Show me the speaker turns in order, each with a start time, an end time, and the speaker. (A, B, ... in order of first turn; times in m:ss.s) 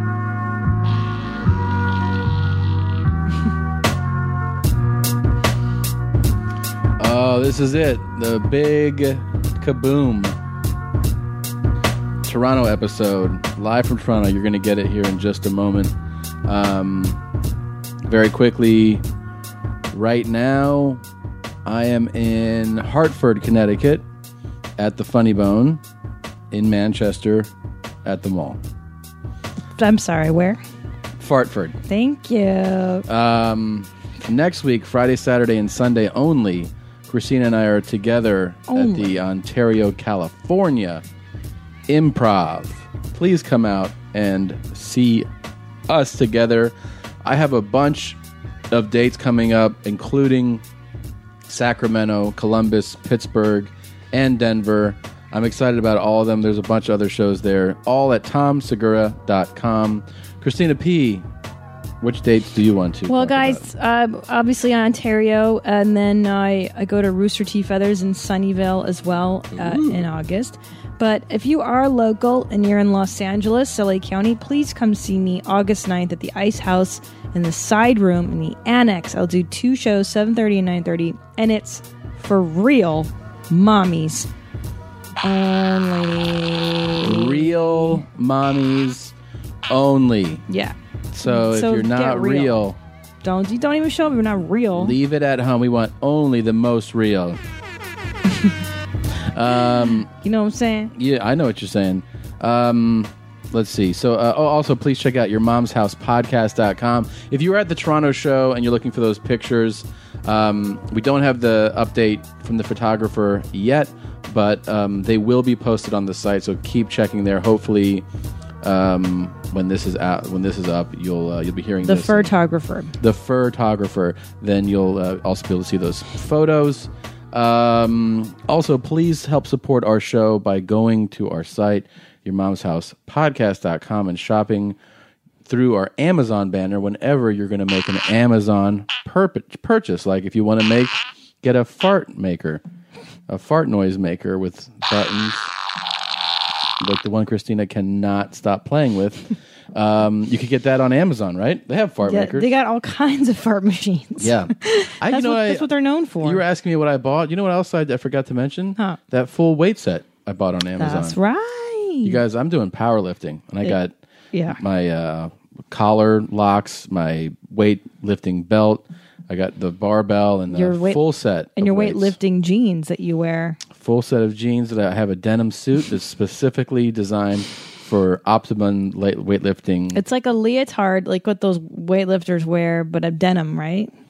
0:07.0-0:10.4 A
0:12.2-0:15.9 A
0:16.5-0:17.2 A
0:18.0-0:19.0 A
0:19.9-0:21.0 A
0:21.6-0:24.0 A
0:24.8-0:25.8 A
0:26.5-0:27.5 A
0:28.0-0:28.6 A
0:29.8-0:30.6 B
0:31.2-0:31.8 A
0:31.9-0:33.0 B
0:33.1-0:41.0 A
0:38.7-0:39.1 B
0:41.9-0:45.3 A
0:45.9-0:48.2 A
0:48.7-0:50.6 A
0:51.5-1:01.3 A
1:02.0-1:03.6 A
1:03.1-1:24.3 B
1:09.5-1:10.0 A
1:25.2-1:28.0 B
1:27.0-1:29.1 A
1:29.7-1:30.4 A
1:30.5-1:32.6 B
1:31.1-1:32.8 A
1:33.2-1:35.0 B
1:34.8-1:37.4 A
1:39.3-1:40.1 A
1:40.2-1:40.9 B
1:41.0-1:58.0 A
1:58.6-2:02.3 A
2:01.8-2:03.0 B
2:03.0-2:14.8 A
2:15.4-2:22.6 A
2:23.3-2:25.5 A
2:26.8-2:32.5 A
2:32.0-2:36.4 B
2:34.2-2:35.7 A
2:36.2-2:41.2 A
2:40.8-2:42.2 B
2:42.0-2:44.0 A
2:44.3-2:44.6 B
2:44.6-2:52.2 A
2:50.5-2:51.0 B
2:51.6-2:53.6 B
2:53.7-3:00.0 A
2:59.9-3:03.9 B